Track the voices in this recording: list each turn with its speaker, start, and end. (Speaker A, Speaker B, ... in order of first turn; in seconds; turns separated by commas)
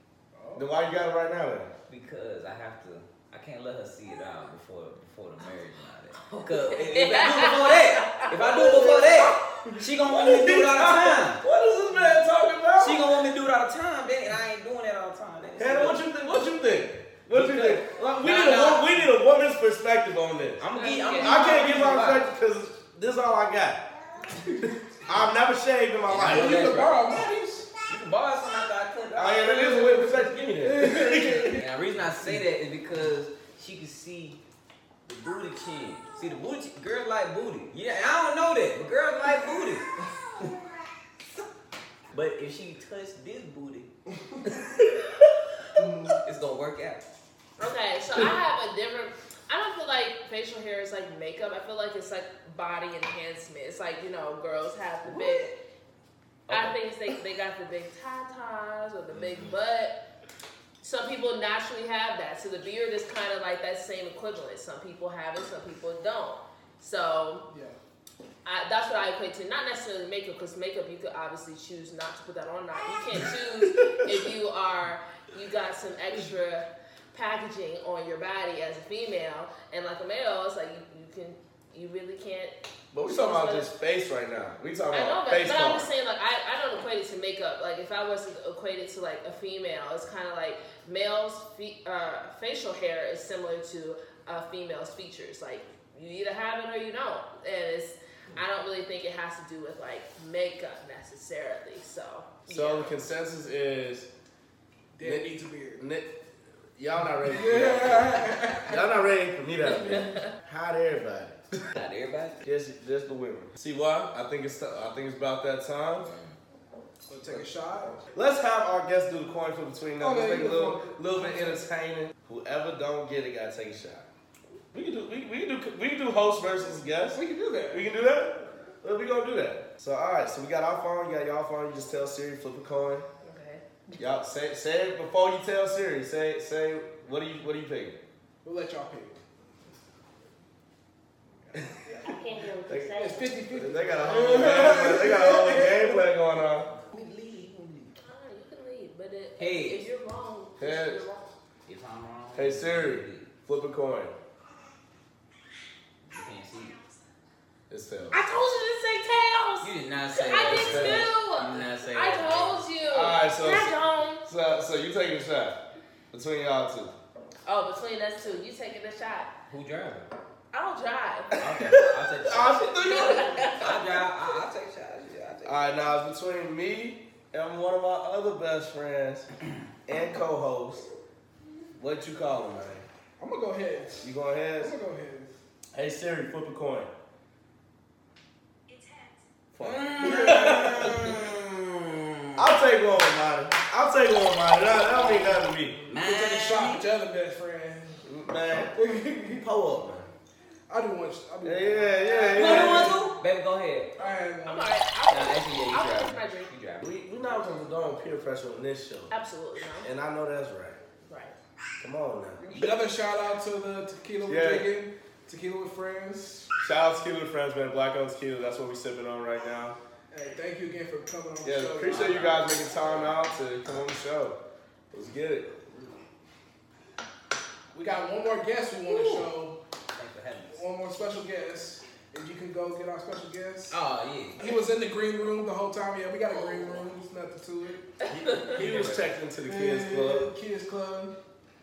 Speaker A: 0.3-0.7, Speaker B: 0.6-1.7, Speaker C: 1.9-12.2, Speaker D: 6.9-8.2, Speaker B: 8.6-9.3, Speaker B: 10.1-13.1, Speaker C: 12.8-16.0, Speaker B: 15.6-20.6, Speaker C: 17.3-19.1, Speaker C: 20.6-22.3, Speaker D: 20.8-21.5, Speaker B: 21.2-23.8, Speaker A: 24.4-24.7, Speaker B: 25.1-26.7, Speaker C: 26.1-27.2, Speaker A: 26.2-27.7, Speaker C: 27.8-30.1, Speaker B: 29.1-31.6, Speaker A: 30.6-31.6, Speaker C: 31.6-34.4, Speaker C: 35.1-39.9, Speaker C: 42.1-43.9, Speaker C: 44.5-47.0, Speaker A: 45.8-46.1, Speaker D: 47.6-55.5, Speaker C: 55.1-55.5, Speaker C: 56.5-56.7, Speaker D: 56.5-60.0, Speaker C: 59.1-59.5, Speaker D: 60.8-67.5, Speaker A: 67.5-67.8, Speaker D: 68.5-83.7, Speaker B: 82.9-85.9, Speaker D: 84.9-103.0, Speaker B: 102.5-104.1, Speaker A: 105.0-105.8, Speaker B: 105.0-106.1, Speaker B: 106.8-111.7, Speaker A: 107.3-108.8, Speaker C: 111.7-112.4, Speaker B: 112.4-116.1, Speaker C: 116.1-116.3, Speaker A: 117.1-118.0, Speaker B: 117.2-117.5, Speaker B: 118.0-124.1, Speaker A: 120.0-121.6, Speaker B: 124.7-133.1, Speaker A: 127.1-127.8, Speaker D: 133.2-133.6, Speaker B: 134.0-138.0, Speaker A: 138.4-139.2, Speaker A: 141.5-142.2, Speaker D: 142.1-143.3, Speaker B: 142.7-146.7, Speaker A: 143.0-146.0, Speaker C: 146.7-148.0, Speaker D: 148.0-151.3, Speaker C: 149.4-149.8, Speaker B: 150.6-151.0, Speaker C: 151.7-153.3, Speaker B: 152.3-154.1, Speaker C: 156.1-156.8, Speaker B: 157.7-158.2, Speaker D: 158.1-164.2, Speaker C: 159.6-162.7, Speaker B: 160.5-161.1, Speaker B: 162.8-165.6, Speaker B: 166.1-166.9, Speaker D: 167.5-169.3, Speaker C: 169.5-170.1, Speaker D: 170.5-171.3, Speaker C: 171.4-175.7, Speaker B: 172.2-173.3, Speaker D: 172.8-173.8, Speaker B: 175.4-179.3, Speaker B: 179.9-180.9, Speaker B: 181.8-182.9, Speaker A: 183.2-184.0, Speaker B: 184.0-184.7, Speaker A: 184.6-185.3, Speaker B: 185.8-186.9, Speaker B: 189.5-191.2, Speaker C: 189.6-192.6, Speaker A: 190.0-191.2, Speaker B: 192.4-195.8, Speaker C: 195.9-196.9, Speaker A: 195.9-198.0, Speaker B: 198.0-200.1, Speaker A: 198.7-199.4, Speaker A: 200.7-203.0, Speaker B: 201.4-203.0, Speaker D: 202.0-202.6, Speaker C: 202.3-203.9, Speaker A: 204.0-204.7, Speaker D: 204.4-206.5, Speaker C: 205.1-207.0, Speaker B: 206.8-209.1, Speaker D: 209.1-209.9, Speaker B: 209.8-210.8, Speaker D: 211.1-211.4, Speaker B: 211.8-212.4, Speaker A: 212.4-216.5, Speaker B: 214.2-214.7, Speaker B: 216.6-219.8, Speaker A: 220.1-222.7, Speaker B: 221.4-224.4, Speaker C: 221.9-222.2, Speaker B: 224.9-225.6, Speaker A: 227.7-229.6, Speaker C: 228.9-229.3, Speaker C: 229.9-230.6, Speaker A: 230.5-233.8, Speaker C: 233.7-234.6, Speaker A: 234.4-237.9, Speaker B: 238.2-240.3, Speaker D: 238.2-238.5, Speaker A: 239.5-241.1